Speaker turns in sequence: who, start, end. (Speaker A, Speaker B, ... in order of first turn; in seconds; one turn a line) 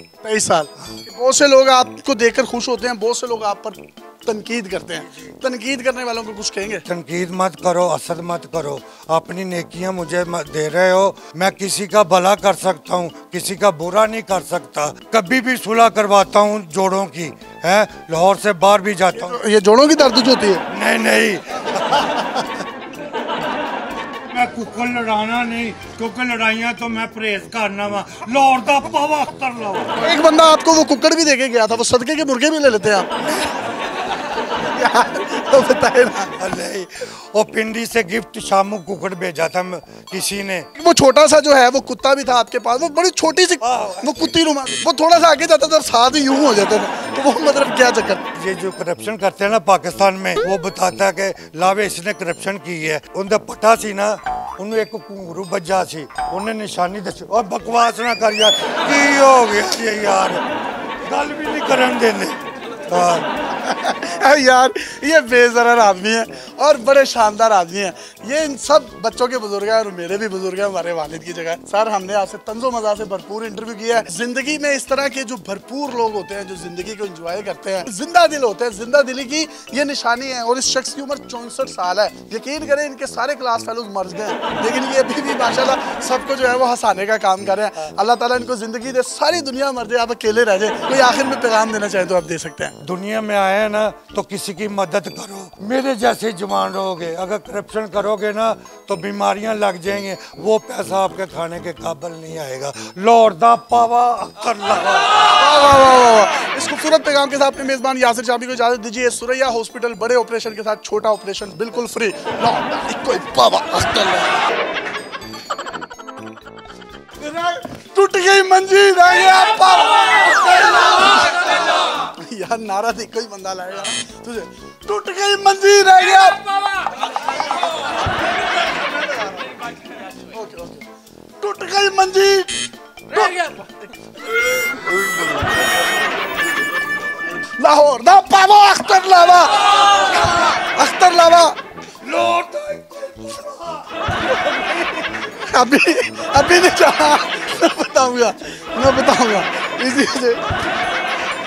Speaker A: 0.2-6.8
Speaker B: 6.9-19.4
Speaker A: 19.1-20.6
Speaker B: 20.7-22.6
Speaker B: 24.3-30.0
Speaker A: 30.0-33.1
Speaker A: 34.4-36.4
Speaker B: 36.4-40.7
Speaker A: 40.8-48.2
Speaker B: 43.6-44.4
Speaker B: 48.4-60.4
Speaker B: 61.0-63.3
Speaker A: 63.5-92.8
Speaker B: 92.8-105.1
Speaker A: 105.3-114.3
Speaker A: 117.2-121.5
Speaker A: 122.1-126.8
Speaker A: 130.2-130.8
Speaker A: 131.4-132.5
Speaker A: 133.1-134.1
Speaker A: 137.6-141.6
Speaker B: 142.0-143.9
Speaker A: 144.3-150.4